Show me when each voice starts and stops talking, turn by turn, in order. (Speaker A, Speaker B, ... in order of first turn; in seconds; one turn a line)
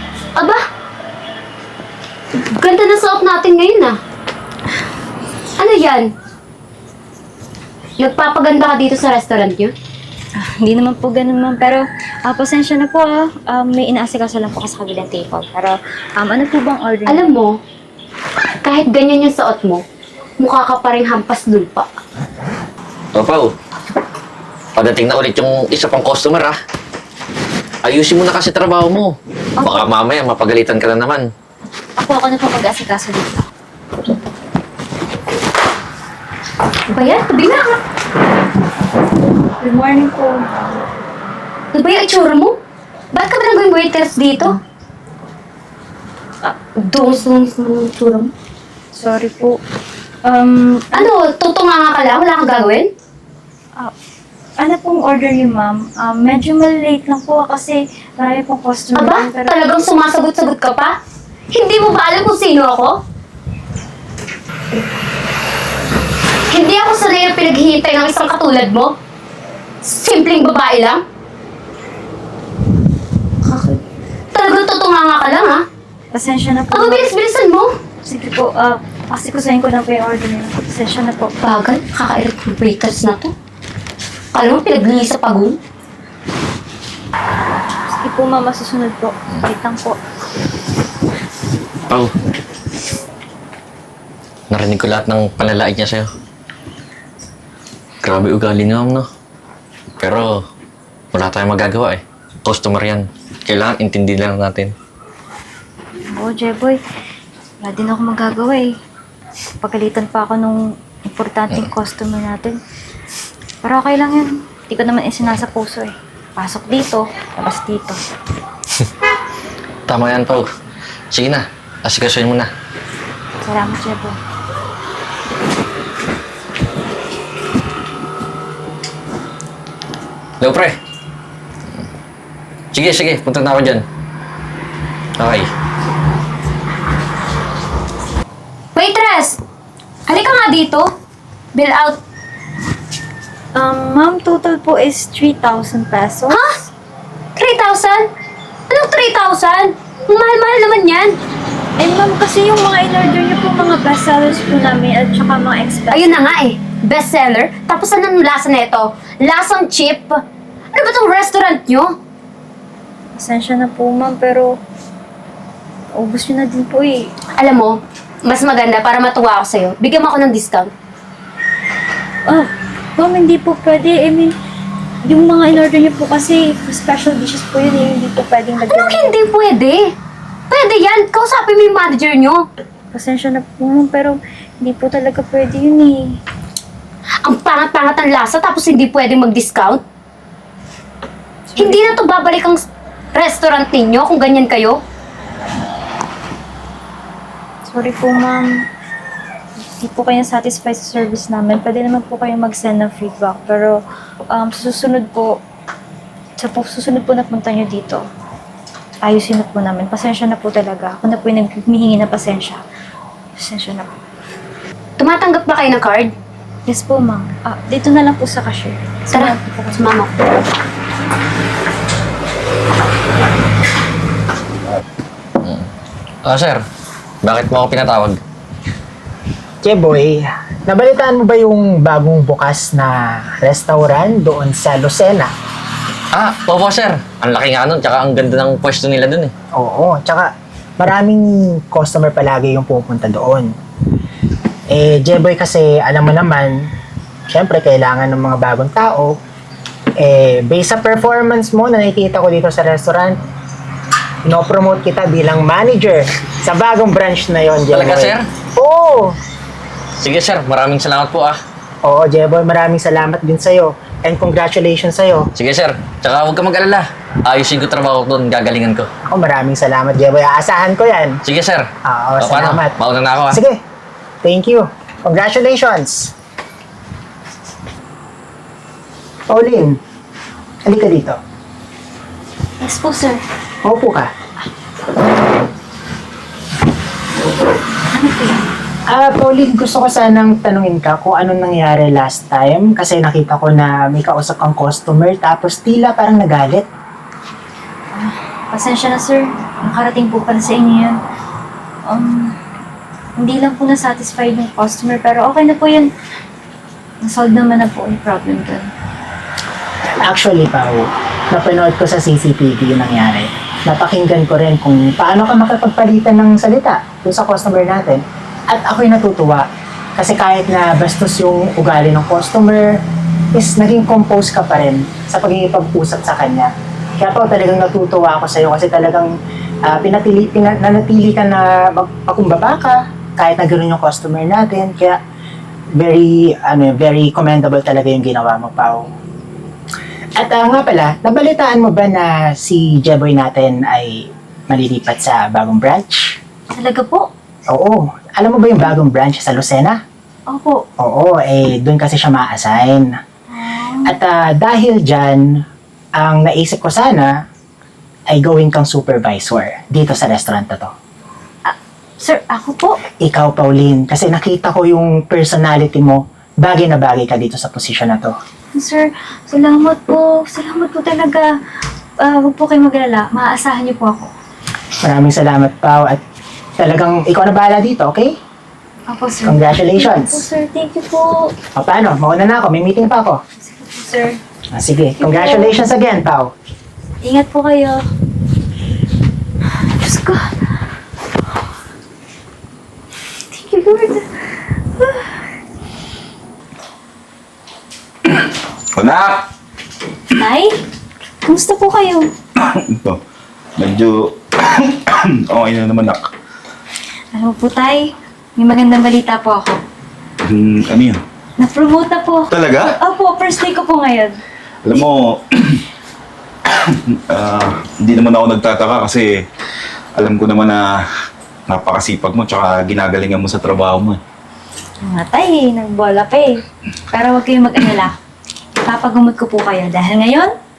Speaker A: 2.6-3.9
Speaker A: 5.6-6.1
Speaker A: 8.0-9.7
Speaker B: 10.4-17.3
Speaker A: 17.1-17.6
Speaker A: 18.6-19.8
Speaker A: 20.4-21.9
Speaker C: 23.1-23.5
Speaker C: 24.8-26.6
Speaker C: 27.8-31.3
Speaker B: 29.6-29.9
Speaker B: 32.0-33.4
Speaker A: 36.9-37.8
Speaker B: 39.6-40.7
Speaker A: 41.7-42.5
Speaker A: 43.1-44.5
Speaker A: 46.4-48.3
Speaker B: 48.9-49.6
Speaker B: 50.2-51.1
Speaker A: 50.9-52.9
Speaker B: 54.6-59.5
Speaker A: 58.9-60.9
Speaker A: 61.5-62.9
Speaker A: 66.5-68.9
Speaker A: 69.8-71.0
Speaker A: 73.4-73.8
Speaker A: 74.3-75.6
Speaker B: 76.1-77.2
Speaker A: 76.7-77.7
Speaker B: 78.0-81.3
Speaker A: 81.4-83.3
Speaker A: 84.3-85.6
Speaker B: 87.5-90.0
Speaker C: 94.5-96.1
Speaker C: 98.0-99.1
Speaker C: 100.0-100.4
Speaker C: 101.1-104.7
Speaker B: 106.1-106.8
Speaker B: 107.6-108.7
Speaker B: 109.6-112.6
Speaker B: 113.6-118.0
Speaker C: 119.9-120.5
Speaker C: 121.1-122.5
Speaker B: 123.4-124.2
Speaker C: 130.4-130.8
Speaker C: 132.7-133.8
Speaker C: 135.2-135.5
Speaker A: 138.7-139.4
Speaker A: 140.1-140.9
Speaker A: 141.5-142.0
Speaker B: 143.6-146.7
Speaker A: 147.4-148.1
Speaker A: 148.7-151.2
Speaker B: 151.8-156.3
Speaker A: 155.9-160.2
Speaker A: 160.7-161.9
Speaker B: 163.2-164.5
Speaker B: 165.9-167.1
Speaker A: 167.4-170.7
Speaker B: 172.3-174.3
Speaker B: 175.0-179.2
Speaker A: 178.7-179.9
Speaker A: 180.5-182.4
Speaker B: 182.9-186.2
Speaker A: 187.2-189.8
Speaker B: 191.5-191.9
Speaker A: 191.6-192.6
Speaker A: 193.1-194.8
Speaker B: 197.6-198.6
Speaker B: 199.7-203.8
Speaker B: 204.3-205.4
Speaker B: 206.4-208.0
Speaker B: 209.0-212.6
Speaker B: 213.3-213.9
Speaker A: 215.0-216.1
Speaker B: 216.7-219.9
Speaker A: 219.1-220.4
Speaker C: 225.4-225.7
Speaker C: 226.2-226.6
Speaker C: 227.2-228.2
Speaker D: 229.6-235.3
Speaker C: 236.1-239.3
Speaker D: 239.5-243.5
Speaker D: 244.7-246.7
Speaker D: 247.3-249.2
Speaker D: 250.0-253.2
Speaker D: 254.2-259.1
Speaker C: 257.7-258.2
Speaker C: 260.0-261.4
Speaker D: 261.8-265.3
Speaker C: 265.4-268.9
Speaker D: 269.1-271.2
Speaker C: 271.2-271.7
Speaker D: 271.9-272.8
Speaker C: 272.2-273.4
Speaker D: 273.3-273.6
Speaker D: 274.2-276.1
Speaker D: 279.3-279.8
Speaker D: 280.7-281.2
Speaker B: 282.6-283.2
Speaker D: 283.6-284.1
Speaker B: 287.9-288.4
Speaker D: 288.9-296.6
Speaker B: 297.9-301.0
Speaker B: 301.9-302.3
Speaker B: 303.2-305.9
Speaker B: 307.0-308.7
Speaker D: 310.0-319.4
Speaker D: 320.0-322.8
Speaker D: 323.3-329.1
Speaker D: 329.6-335.0
Speaker D: 335.8-338.9
Speaker D: 340.2-346.2
Speaker B: 346.5-347.1
Speaker D: 347.5-349.8
Speaker B: 350.3-350.6
Speaker D: 350.8-352.9
Speaker B: 353.3-353.9
Speaker D: 353.9-355.4
Speaker D: 356.0-357.1
Speaker D: 358.1-360.7
Speaker B: 361.4-362.8
Speaker D: 363.0-368.1
Speaker B: 368.5-371.3
Speaker B: 372.0-374.1
Speaker D: 374.8-376.0
Speaker D: 376.6-378.1
Speaker B: 378.9-381.3
Speaker D: 379.2-380.2
Speaker D: 381.5-383.2
Speaker B: 383.4-384.2
Speaker D: 384.5-386.3
Speaker B: 385.0-385.6
Speaker B: 387.0-387.8
Speaker B: 389.6-390.3
Speaker B: 393.3-394.1
Speaker B: 394.8-395.1
Speaker E: 398.1-399.2
Speaker B: 400.1-400.5
Speaker B: 401.2-402.1
Speaker E: 402.4-403.0
Speaker E: 403.6-406.1
Speaker B: 407.1-409.6
Speaker E: 410.2-411.0
Speaker B: 411.4-414.2
Speaker E: 412.3-412.7
Speaker E: 414.6-415.6
Speaker E: 416.4-419.2
Speaker E: 419.9-420.7
Speaker E: 421.5-424.0
Speaker B: 424.8-427.9
Speaker B: 428.6-430.3